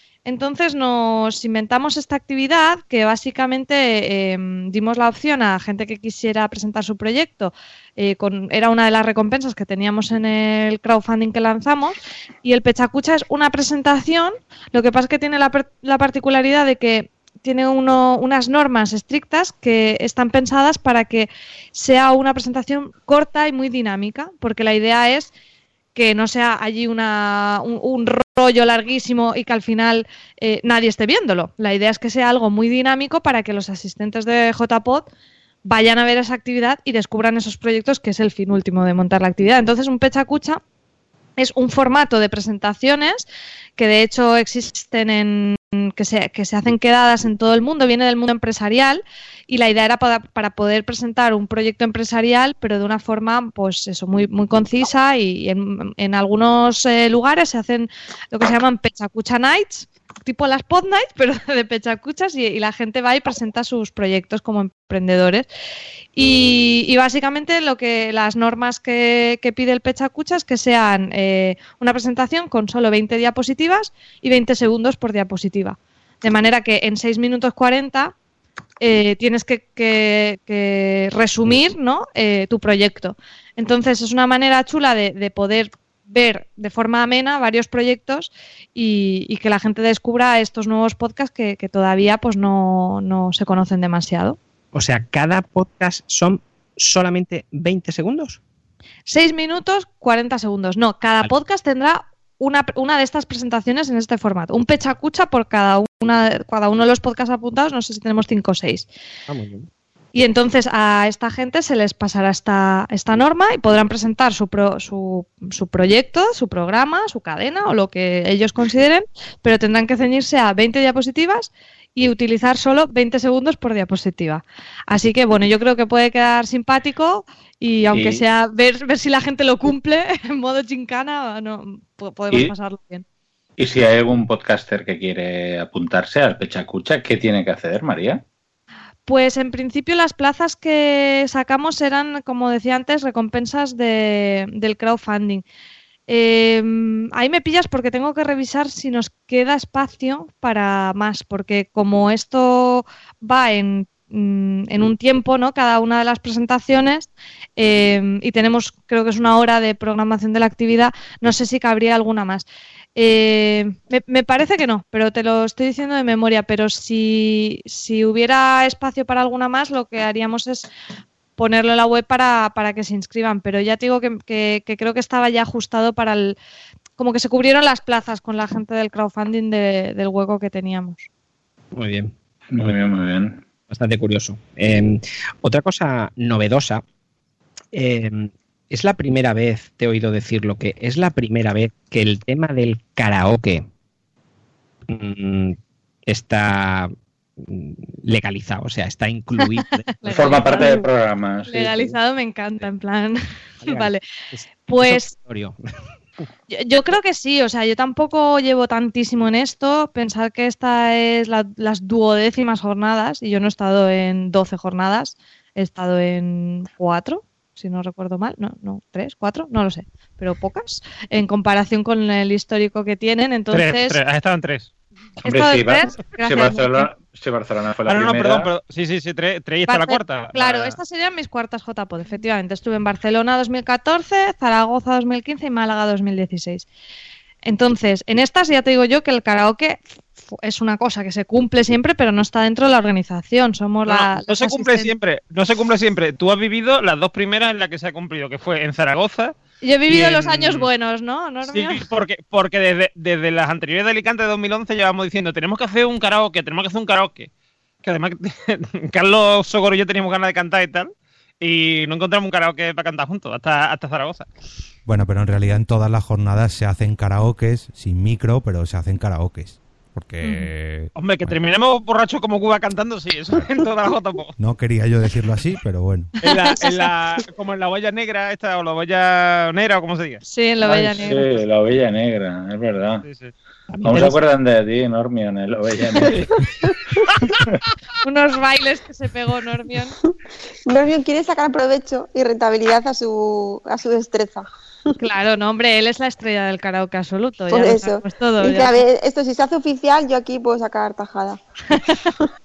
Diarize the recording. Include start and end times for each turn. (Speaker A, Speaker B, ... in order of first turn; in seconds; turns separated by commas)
Speaker A: 0.3-25.3, Speaker A: 25.9-35.1, Speaker A: 35.7-40.6, Speaker A: 41.4-43.3, Speaker A: 43.8-65.5, Speaker A: 66.2-78.1, Speaker A: 78.8-94.4, Speaker B: 94.7-98.4, Speaker A: 99.1-108.9, Speaker B: 109.3-109.7, Speaker A: 110.1-133.1, Speaker C: 127.9-128.2, Speaker C: 133.6-138.2, Speaker A: 139.1-145.4, Speaker A: 146.1-170.7, Speaker A: 171.4-176.4, Speaker A: 177.0-181.1, Speaker B: 181.7-182.8, Speaker C: 182.5-183.4, Speaker B: 183.7-186.8, Speaker B: 187.7-193.7, Speaker B: 194.9-200.7, Speaker A: 200.0-200.9, Speaker C: 200.1-201.9, Speaker A: 201.5-204.0, Speaker B: 203.6-205.6, Speaker A: 204.7-205.1, Speaker A: 206.5-224.0, Speaker D: 223.5-224.7, Speaker A: 225.2-226.9, Speaker C: 225.2-228.5, Speaker D: 227.9-230.8, Speaker A: 229.7-236.7, Speaker A: 237.5-239.8, Speaker A: 240.3-244.9, Speaker D: 243.9-249.3, Speaker A: 249.6-251.8, Speaker D: 249.9-250.7, Speaker D: 251.4-257.3, Speaker D: 257.8-264.3, Speaker E: 264.9-271.3, Speaker A: 270.2-270.5, Speaker D: 271.0-274.3, Speaker E: 274.4-276.1, Speaker D: 276.2-280.2, Speaker A: 280.2-281.3, Speaker C: 280.9-283.1, Speaker D: 283.0-283.3, Speaker B: 283.7-284.2, Speaker C: 283.8-286.2, Speaker A: 288.0-290.0, Speaker F: 290.7-294.5, Speaker A: 295.0-298.8, Speaker F: 297.5-301.4, Speaker A: 301.7-302.1